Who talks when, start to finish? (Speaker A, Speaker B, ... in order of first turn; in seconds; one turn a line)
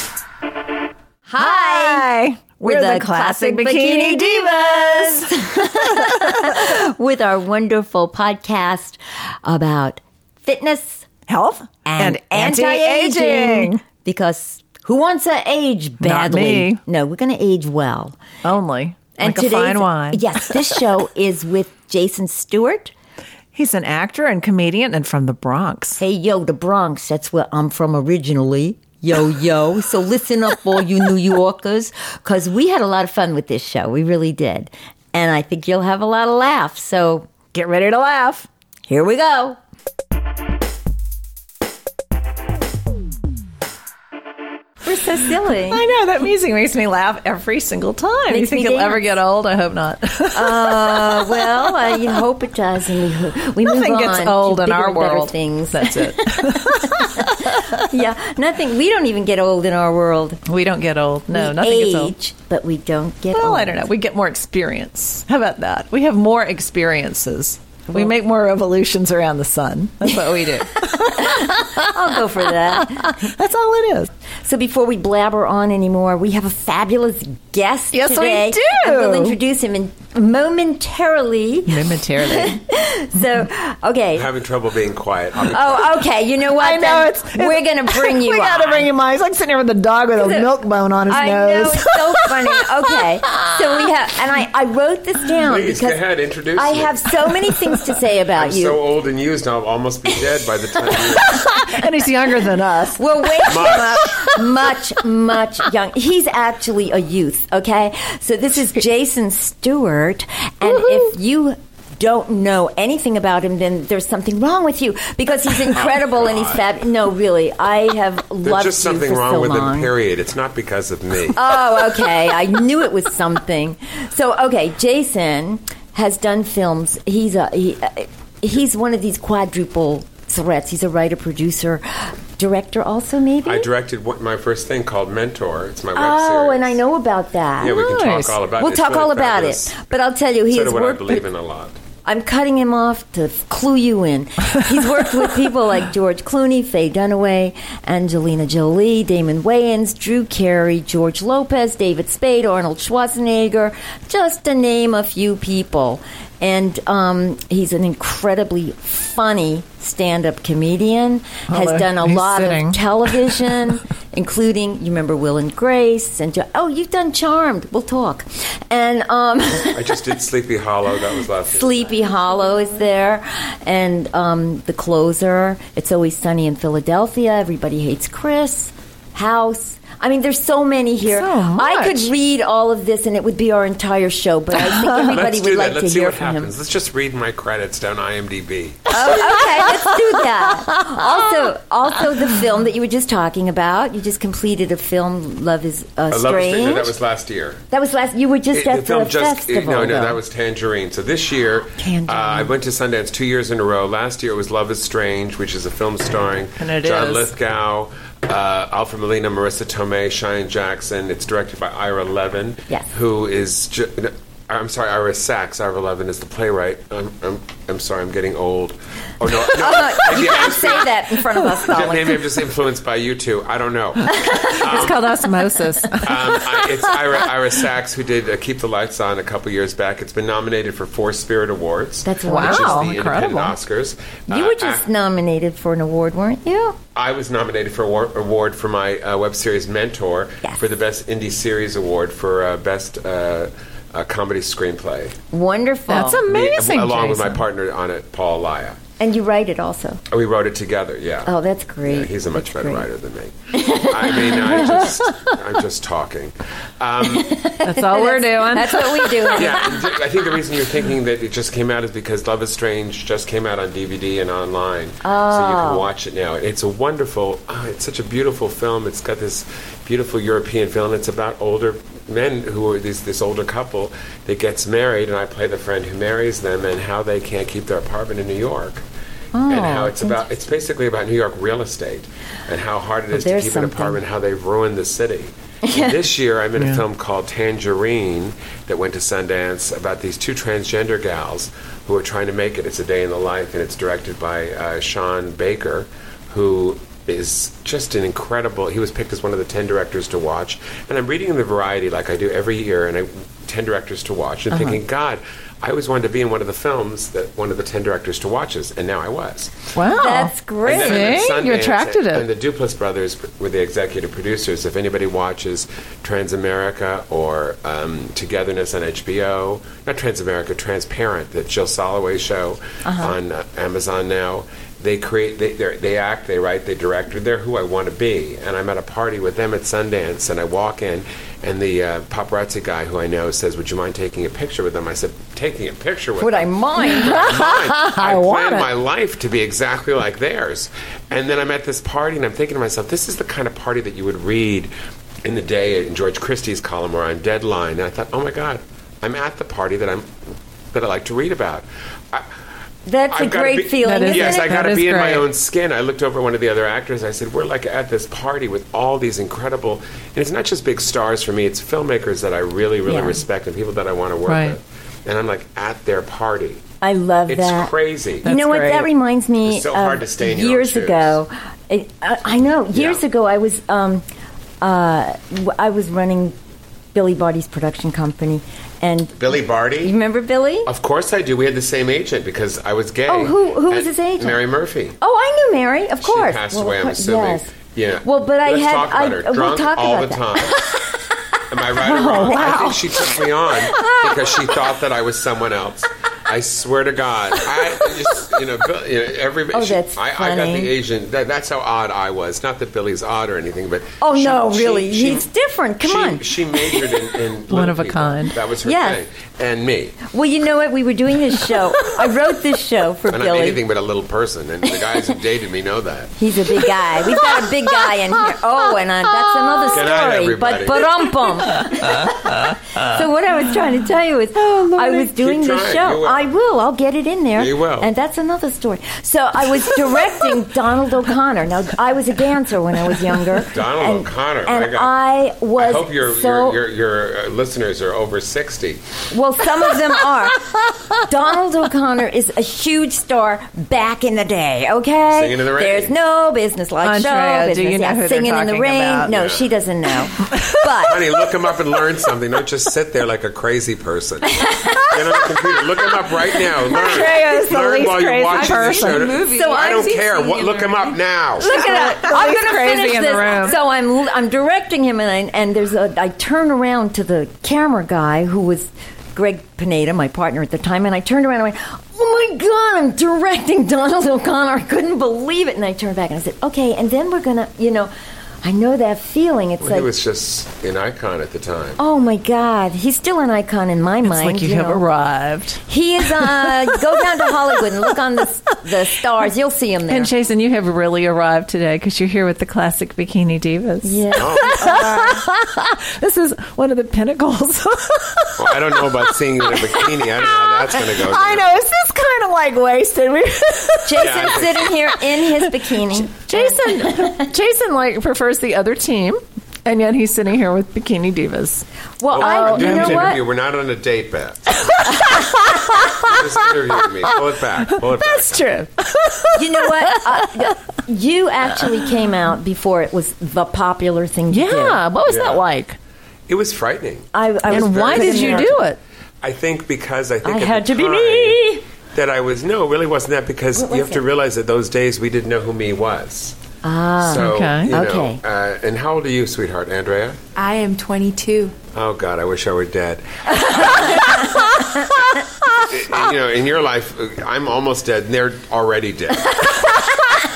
Speaker A: 1.3-11.1
Speaker B: 1.4-6.1
Speaker B: 11.3-13.8
Speaker A: 11.8-18.2
Speaker B: 16.0-16.8
Speaker B: 18.4-20.2
Speaker A: 19.2-22.9
Speaker B: 23.5-26.0
Speaker A: 26.0-37.3
Speaker B: 37.5-38.5
Speaker A: 38.9-39.6
Speaker A: 44.8-45.8
Speaker B: 45.7-52.0
Speaker A: 48.3-49.0
Speaker A: 50.3-60.4
Speaker B: 53.7-57.9
Speaker B: 60.5-62.1
Speaker A: 61.3-63.8
Speaker B: 63.3-71.9
Speaker A: 67.9-68.1
Speaker A: 70.8-73.3
Speaker B: 73.0-74.1
Speaker A: 74.5-84.3
Speaker B: 77.9-79.4
Speaker B: 81.7-82.6
Speaker C: 84.2-86.0
Speaker A: 85.5-88.9
Speaker B: 86.6-92.3
Speaker A: 90.1-90.5
Speaker A: 91.1-96.0
Speaker C: 95.4-97.0
Speaker A: 96.6-98.8
Speaker C: 98.3-101.5
Speaker A: 100.9-101.7
Speaker B: 101.5-103.0
Speaker A: 103.0-119.9
Speaker C: 103.5-104.0
Speaker B: 103.5-104.2
Speaker C: 115.7-116.7
Speaker C: 118.4-121.4
Speaker A: 121.3-133.7
Speaker C: 133.4-136.8
Speaker A: 135.9-137.8
Speaker C: 137.6-139.7
Speaker B: 137.6-138.4
Speaker A: 138.6-141.2
Speaker C: 140.5-141.8
Speaker A: 142.1-170.1
Speaker B: 161.5-163.5
Speaker C: 169.7-172.0
Speaker A: 171.5-186.5
Speaker B: 181.1-182.1
Speaker C: 185.0-189.1
Speaker A: 188.9-196.9
Speaker B: 189.1-189.7
Speaker B: 191.0-191.4
Speaker C: 196.1-197.7
Speaker A: 197.7-200.2
Speaker C: 198.5-221.0
Speaker A: 201.8-202.5
Speaker B: 206.6-207.3
Speaker A: 219.4-222.2
Speaker C: 221.6-225.2
Speaker A: 224.2-224.6
Speaker B: 224.5-227.1
Speaker C: 226.0-234.9
Speaker A: 232.0-232.9
Speaker B: 232.3-233.6
Speaker A: 234.3-236.8
Speaker C: 236.9-245.2
Speaker A: 245.3-246.2
Speaker B: 245.9-247.4
Speaker C: 246.3-248.8
Speaker A: 249.0-250.0
Speaker C: 250.1-251.3
Speaker A: 251.3-252.9
Speaker C: 251.8-257.4
Speaker A: 253.5-254.5
Speaker A: 257.1-259.8
Speaker B: 257.6-259.5
Speaker C: 259.4-278.8
Speaker A: 265.0-265.9
Speaker A: 279.3-280.2
Speaker C: 279.5-309.7
Speaker A: 283.1-284.0
Speaker A: 285.6-285.9
Speaker B: 309.8-312.3
Speaker A: 309.9-311.2
Speaker C: 310.7-344.7
Speaker A: 322.9-323.1
Speaker A: 336.2-337.2
Speaker B: 337.0-338.7
Speaker C: 345.2-350.1
Speaker C: 350.7-352.3
Speaker A: 352.9-354.7
Speaker C: 353.1-366.6
Speaker B: 353.8-355.3
Speaker A: 362.9-363.2
Speaker B: 364.3-364.6
Speaker A: 366.8-367.7
Speaker C: 367.3-368.3
Speaker B: 368.2-368.9
Speaker A: 368.2-374.0
Speaker C: 369.4-371.2
Speaker C: 372.7-373.0
Speaker A: 374.6-376.4
Speaker A: 376.9-379.2
Speaker C: 379.1-379.9
Speaker A: 379.8-380.7
Speaker C: 380.7-385.0
Speaker A: 383.1-384.4
Speaker A: 385.0-390.7
Speaker C: 386.0-390.6
Speaker C: 391.5-405.3
Speaker A: 391.8-392.8
Speaker B: 391.8-392.9
Speaker B: 393.8-394.0
Speaker A: 399.5-400.7
Speaker A: 404.0-406.9
Speaker C: 405.8-410.0
Speaker B: 407.5-408.4
Speaker A: 408.6-409.0
Speaker A: 410.1-413.6
Speaker C: 413.1-416.2
Speaker A: 416.2-436.6
Speaker C: 419.7-421.1
Speaker C: 424.7-426.3
Speaker C: 427.4-427.9
Speaker C: 433.4-434.9
Speaker C: 435.6-438.8
Speaker A: 439.1-451.2
Speaker C: 445.1-446.0
Speaker B: 446.8-449.1
Speaker C: 449.1-449.5
Speaker C: 450.8-461.6
Speaker A: 454.3-455.6
Speaker A: 456.7-457.9
Speaker B: 456.8-459.1
Speaker D: 458.3-461.0
Speaker A: 461.4-477.9
Speaker B: 461.4-463.6
Speaker A: 478.4-479.9
Speaker C: 479.6-481.8
Speaker A: 481.8-484.8
Speaker B: 484.0-485.6
Speaker A: 485.7-490.1
Speaker B: 486.2-486.8
Speaker B: 489.9-504.2
Speaker A: 493.8-495.2
Speaker C: 494.2-494.9
Speaker C: 498.4-501.5
Speaker A: 503.9-507.2
Speaker C: 504.0-504.8
Speaker B: 505.7-511.7
Speaker A: 512.0-513.2
Speaker C: 512.1-514.7
Speaker B: 512.2-513.2
Speaker B: 514.6-516.5
Speaker C: 515.8-518.6
Speaker B: 517.0-520.3
Speaker A: 519.4-524.8
Speaker B: 524.3-525.8
Speaker C: 525.1-525.4
Speaker C: 526.3-528.6
Speaker A: 527.1-528.6
Speaker B: 527.5-528.8
Speaker C: 529.2-536.4
Speaker A: 530.2-531.6
Speaker A: 533.6-534.0
Speaker A: 536.6-538.2
Speaker C: 537.0-540.2
Speaker B: 537.1-537.7
Speaker D: 540.4-541.5
Speaker C: 541.7-544.4
Speaker A: 543.3-544.9
Speaker C: 545.6-549.6